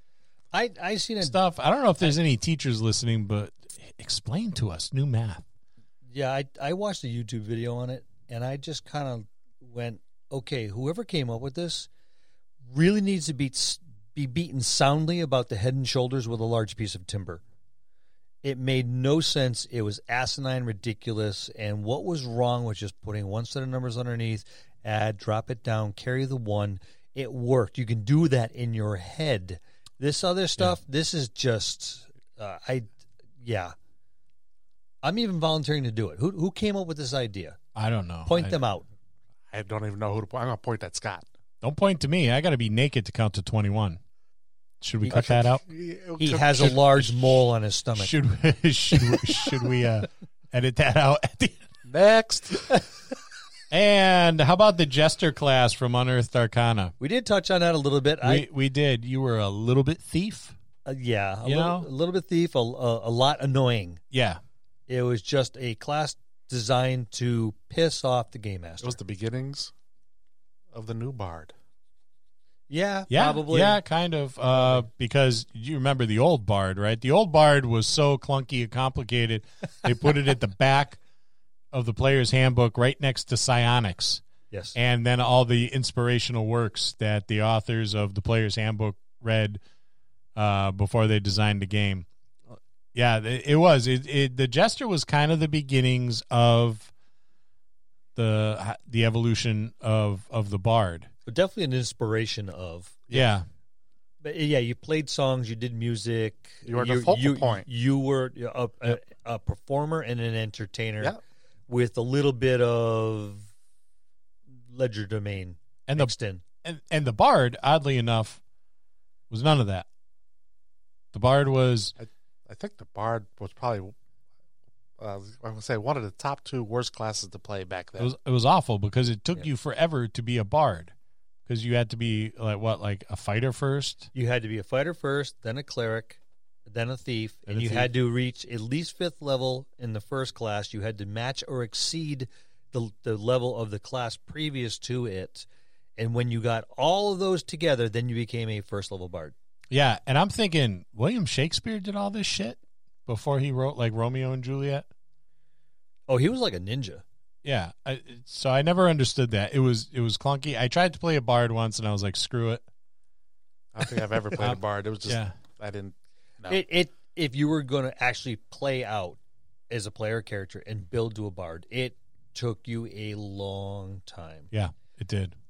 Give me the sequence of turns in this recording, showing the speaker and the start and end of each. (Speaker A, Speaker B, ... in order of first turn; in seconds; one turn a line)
Speaker A: 0.5-1.4
Speaker B: 1.2-5.4
Speaker A: 6.1-11.9
Speaker A: 12.7-17.4
Speaker A: 18.4-33.7
Speaker A: 35.0-37.6
Speaker B: 37.7-38.5
Speaker A: 38.2-38.9
Speaker C: 39.5-41.2
Speaker B: 41.6-44.0
Speaker B: 44.8-45.6
Speaker C: 45.1-46.8
Speaker A: 46.2-48.1
Speaker B: 46.6-47.4
Speaker B: 48.0-51.6
Speaker A: 48.9-49.6
Speaker C: 51.9-52.6
Speaker B: 53.7-56.9
Speaker A: 57.0-58.5
Speaker B: 58.2-60.5
Speaker A: 60.9-64.0
Speaker B: 61.4-61.9
Speaker B: 64.1-64.4
Speaker A: 64.9-69.0
Speaker C: 68.8-69.7
Speaker C: 70.7-71.5
Speaker A: 72.7-73.8
Speaker B: 73.1-81.0
Speaker A: 74.5-74.8
Speaker B: 81.7-84.2
Speaker A: 84.5-84.8
Speaker B: 84.7-89.6
Speaker B: 90.3-92.0
Speaker B: 92.9-96.9
Speaker B: 98.2-101.1
Speaker A: 101.3-103.0
Speaker B: 103.1-103.5
Speaker A: 104.2-111.2
Speaker C: 106.7-107.7
Speaker A: 111.7-113.5
Speaker A: 114.7-116.4
Speaker B: 115.9-116.1
Speaker B: 116.6-118.4
Speaker B: 119.3-119.8
Speaker B: 121.1-121.9
Speaker C: 122.0-123.9
Speaker C: 125.0-128.1
Speaker B: 128.0-130.9
Speaker B: 131.5-134.1
Speaker A: 134.1-145.4
Speaker B: 137.5-137.9
Speaker A: 146.0-149.3
Speaker B: 149.7-154.8
Speaker A: 156.1-157.0
Speaker B: 157.4-162.6
Speaker C: 163.7-166.6
Speaker B: 164.4-165.3
Speaker A: 166.5-169.2
Speaker A: 169.7-174.5
Speaker B: 174.5-175.3